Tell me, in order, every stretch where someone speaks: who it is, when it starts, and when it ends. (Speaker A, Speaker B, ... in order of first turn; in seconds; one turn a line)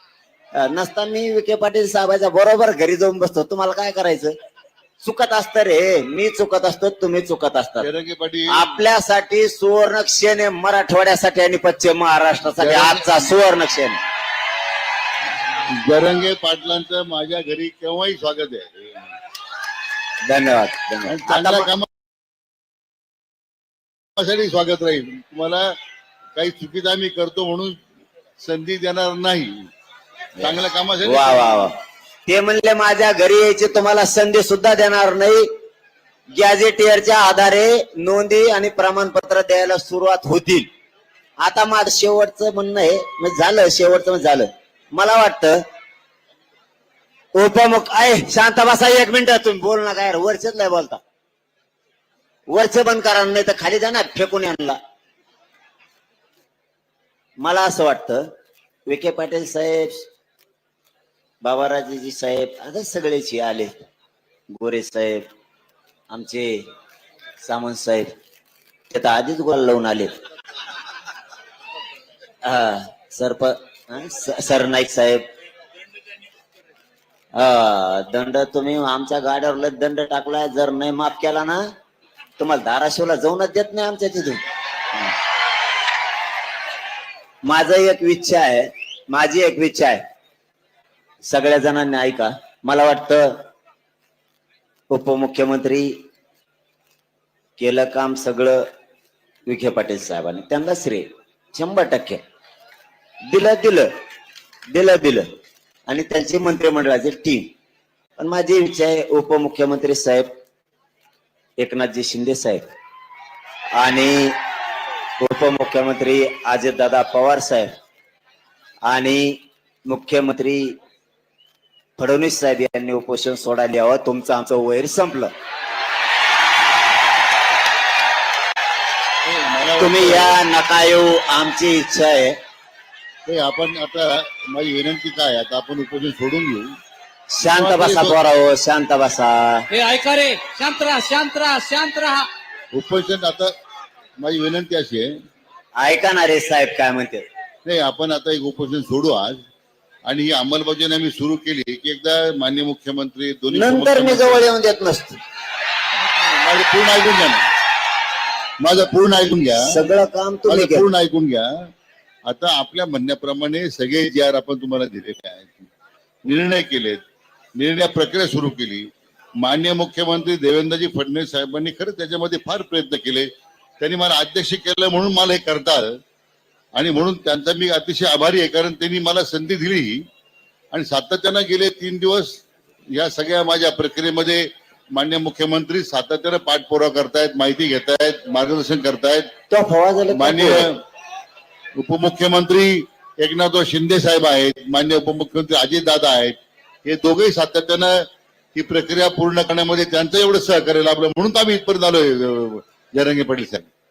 Speaker A: 0.5-4.3
Speaker A: 5.0-7.9
Speaker B: 7.8-8.6
Speaker A: 8.5-14.0
Speaker B: 12.6-13.2
Speaker B: 15.7-19.1
Speaker A: 20.2-21.7
Speaker B: 21.1-21.9
Speaker B: 24.2-25.7
Speaker B: 26.4-27.8
Speaker B: 28.4-29.7
Speaker A: 30.4-31.7
Speaker B: 30.4-31.6
Speaker A: 32.3-35.5
Speaker A: 36.3-40.7
Speaker A: 41.4-45.6
Speaker A: 47.3-51.0
Speaker A: 52.5-54.8
Speaker A: 57.4-58.3
Speaker A: 58.9-60.0
Speaker A: 61.4-63.7
Speaker A: 64.5-65.2
Speaker A: 66.1-66.6
Speaker A: 67.4-68.1
Speaker A: 68.9-70.1
Speaker A: 72.4-75.2
Speaker A: 77.3-81.6
Speaker A: 82.4-84.4
Speaker A: 87.4-90.0
Speaker A: 91.2-93.3
Speaker A: 94.9-95.9
Speaker A: 97.6-98.6
Speaker A: 99.5-102.2
Speaker A: 103.3-103.9
Speaker A: 104.7-105.3
Speaker A: 105.9-107.5
Speaker A: 108.2-110.3
Speaker A: 111.6-112.6
Speaker A: 113.8-114.4
Speaker A: 115.2-117.7
Speaker A: 118.8-120.7
Speaker A: 122.0-125.3
Speaker B: 129.2-130.4
Speaker A: 129.8-132.4
Speaker B: 133.2-136.7
Speaker A: 137.3-139.7
Speaker B: 137.4-138.2
Speaker C: 139.7-142.3
Speaker B: 142.7-143.5
Speaker B: 144.2-145.1
Speaker A: 145.8-147.2
Speaker B: 147.6-149.4
Speaker B: 150.1-154.5
Speaker A: 153.5-155.2
Speaker B: 156.0-157.4
Speaker B: 158.6-159.8
Speaker A: 159.6-160.9
Speaker B: 160.5-161.7
Speaker B: 162.3-165.7
Speaker B: 166.2-167.0
Speaker B: 167.6-168.9
Speaker B: 169.4-173.3
Speaker B: 173.8-175.9
Speaker B: 176.7-180.1
Speaker B: 180.7-189.3
Speaker A: 189.5-190.7
Speaker B: 190.1-190.8
Speaker B: 191.8-203.7